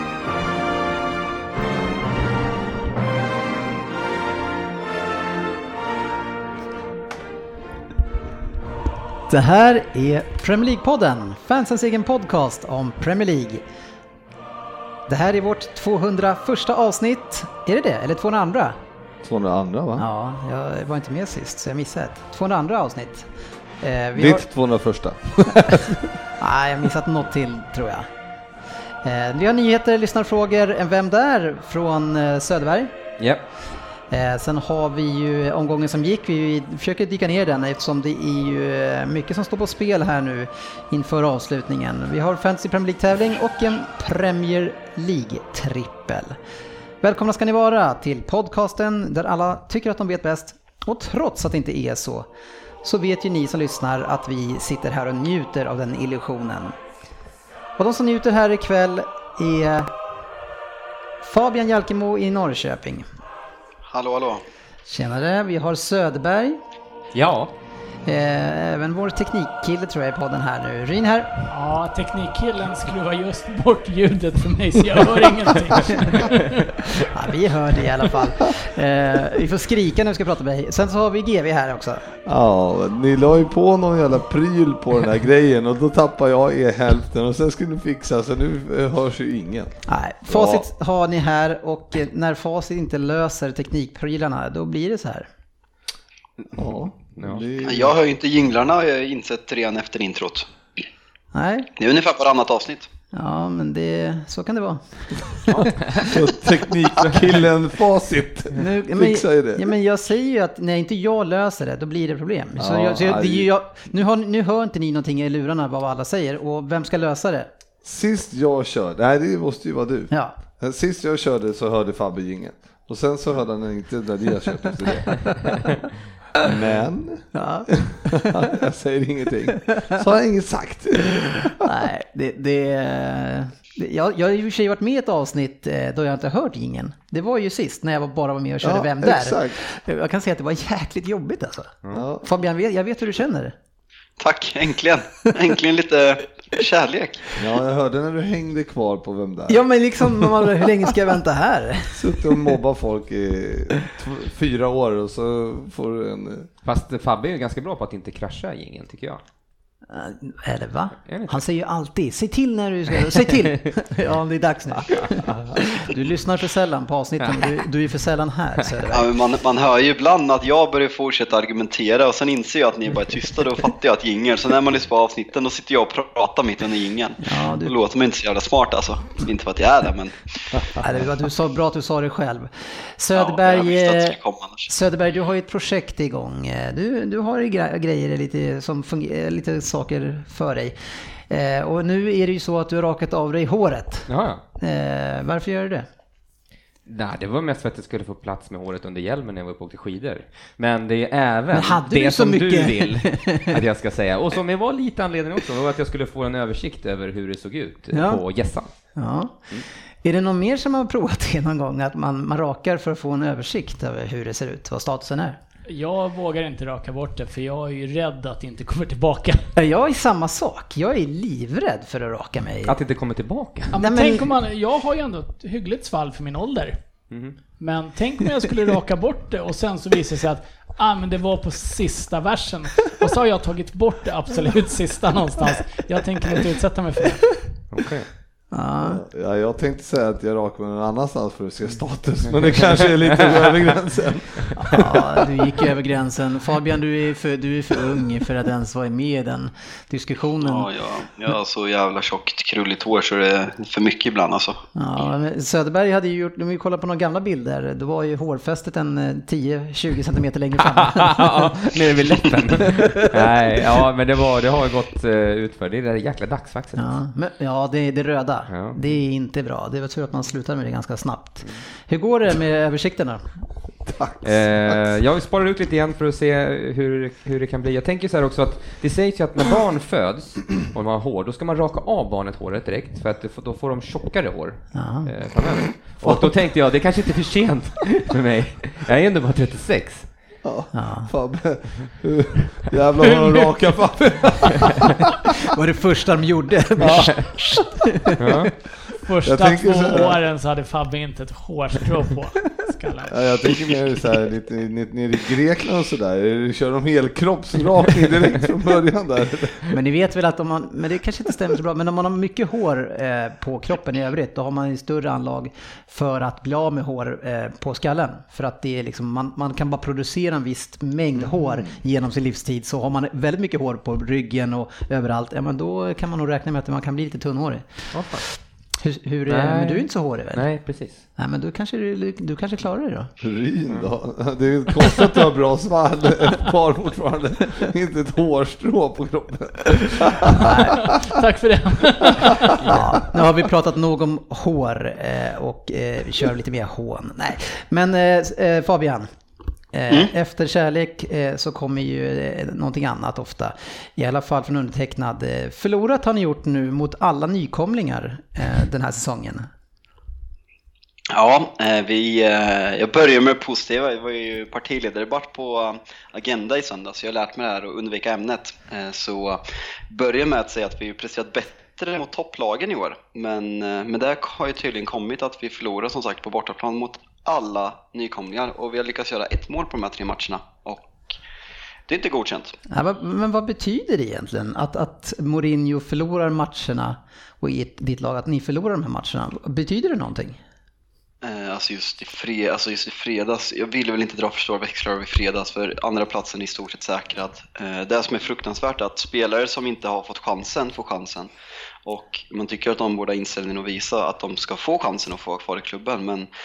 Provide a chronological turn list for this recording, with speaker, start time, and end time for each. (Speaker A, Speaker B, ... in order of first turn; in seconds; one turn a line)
Speaker A: 9.3-13.6
Speaker A: 15.1-18.8
Speaker B: 19.2-20.1
Speaker A: 20.0-23.3
Speaker A: 23.8-24.4
Speaker B: 24.2-26.1
Speaker A: 26.4-28.1
Speaker A: 29.0-33.0
Speaker A: 34.1-46.4
Speaker A: 47.0-52.3
Speaker A: 52.8-56.8
Speaker A: 57.8-59.9
Speaker A: 61.2-63.0
Speaker C: 63.9-64.4
Speaker A: 64.9-66.6
Speaker D: 67.1-67.5
Speaker A: 68.0-71.3
Speaker E: 71.5-76.7
Speaker A: 77.0-82.0
Speaker B: 82.3-90.7
Speaker A: 89.9-95.3
Speaker B: 96.5-98.0
Speaker D: 97.2-97.5
Speaker C: 97.6-100.5
Speaker A: 101.3-101.7
Speaker C: 101.8-102.9
Speaker A: 103.1-106.0
Speaker B: 105.5-109.7
Speaker A: 108.5-117.5
Speaker B: 112.6-113.5
Speaker B: 117.8-125.5
Speaker A: 120.1-120.4
Speaker B: 126.3-131.7
Speaker A: 127.3-128.5
Speaker A: 131.6-143.6
Speaker B: 138.6-139.6
Speaker B: 141.9-142.2
Speaker C: 144.2-147.4
Speaker B: 147.4-150.4
Speaker A: 149.5-152.5
Speaker B: 151.9-156.5
Speaker D: 156.6-159.2
Speaker A: 159.9-169.1
Speaker D: 161.1-161.4
Speaker C: 168.9-180.2
Speaker A: 177.2-177.8
Speaker A: 180.8-184.2
Speaker C: 183.1-184.7
Speaker A: 184.7-190.8
Speaker A: 191.3-194.1
Speaker D: 194.1-194.4
Speaker A: 194.6-195.9
Speaker D: 196.9-208.7
Speaker A: 201.5-203.6
Speaker A: 207.9-208.2
Speaker A: 208.9-209.4
Speaker A: 210.0-215.4
Speaker E: 215.7-219.5
Speaker A: 219.6-222.8
Speaker D: 222.7-223.8
Speaker A: 223.7-224.3
Speaker E: 223.7-226.8
Speaker D: 227.1-227.4
Speaker E: 227.6-237.4
Speaker D: 237.7-238.1
Speaker A: 238.5-239.0
Speaker B: 238.9-245.2
Speaker D: 242.2-243.8
Speaker A: 244.6-250.7
Speaker C: 250.4-254.6
Speaker A: 254.8-262.8
Speaker D: 260.6-266.9
Speaker B: 262.8-263.2
Speaker A: 266.8-273.2
Speaker D: 268.5-268.8
Speaker B: 273.9-274.8
Speaker D: 274.2-290.1
Speaker A: 284.7-285.1
Speaker B: 286.0-286.3
Speaker B: 290.4-294.7
Speaker A: 290.7-291.1
Speaker E: 293.0-293.5
Speaker A: 295.4-298.4
Speaker D: 296.8-297.3
Speaker D: 298.2-298.5
Speaker E: 299.0-303.7
Speaker B: 299.2-300.2
Speaker B: 303.1-309.8
Speaker A: 309.7-328.2
Speaker D: 327.9-328.2
Speaker A: 328.8-330.4
Speaker D: 329.3-331.0
Speaker A: 331.2-333.1
Speaker B: 333.2-340.9
Speaker A: 340.4-340.9
Speaker E: 340.9-342.6
Speaker A: 342.6-349.1
Speaker A: 349.7-359.5
Speaker C: 361.1-381.2
Speaker C: 381.9-382.6
Speaker A: 382.7-390.4
Speaker C: 391.2-401.3
Speaker C: 401.9-406.3